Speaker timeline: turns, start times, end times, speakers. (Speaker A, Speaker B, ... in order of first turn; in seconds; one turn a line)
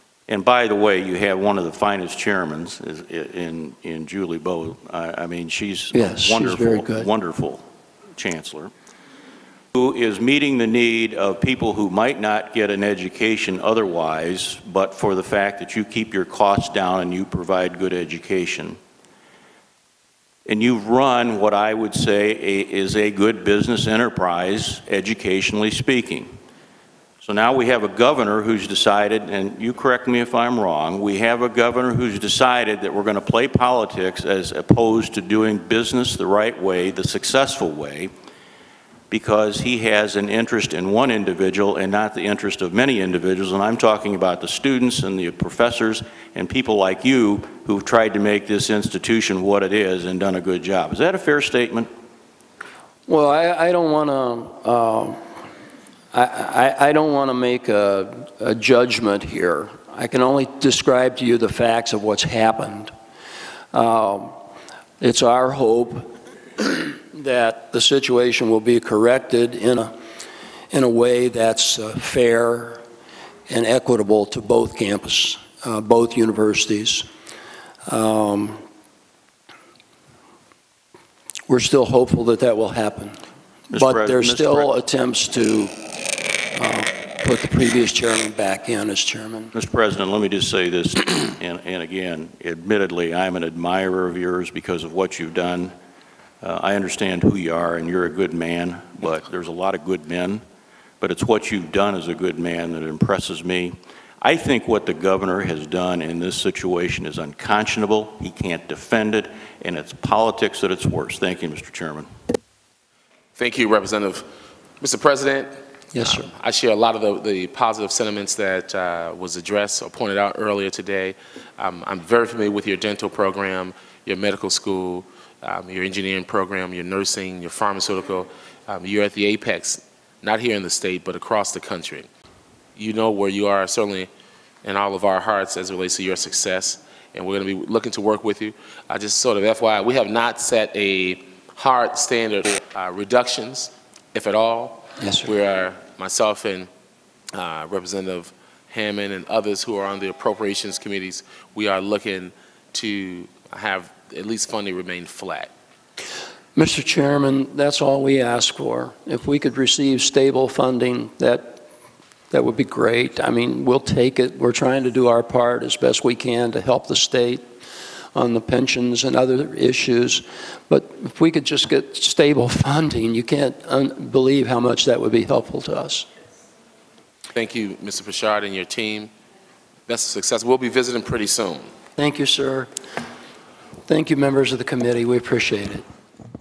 Speaker A: 0.3-7.6
Speaker B: 5.9-7.1
Speaker A: 8.2-8.7
Speaker A: 9.7-18.8
Speaker A: 20.5-26.3
Speaker A: 27.2-38.1
Speaker A: 39.1-51.9
Speaker B: 53.1-55.2
Speaker B: 56.1-62.9
Speaker B: 63.7-64.4
Speaker B: 65.0-69.9
Speaker B: 70.7-72.8
Speaker B: 73.5-77.1
Speaker B: 77.9-78.6
Speaker B: 81.5-83.2
Speaker A: 83.7-84.7
Speaker B: 83.7-85.8
Speaker B: 86.5-89.5
Speaker A: 89.5-95.7
Speaker A: 96.4-100.4
Speaker A: 101.0-112.1
Speaker C: 113.4-114.3
Speaker C: 114.8-132.1
Speaker B: 115.9-116.3
Speaker C: 132.8-134.1
Speaker C: 134.6-146.7
Speaker B: 145.0-145.3
Speaker C: 147.3-155.5
Speaker B: 156.6-161.6
Speaker B: 162.3-167.4
Speaker B: 168.2-176.1
Speaker C: 177.3-179.1
Speaker C: 179.9-181.7
Speaker B: 182.0-182.7
Speaker B: 183.9-185.8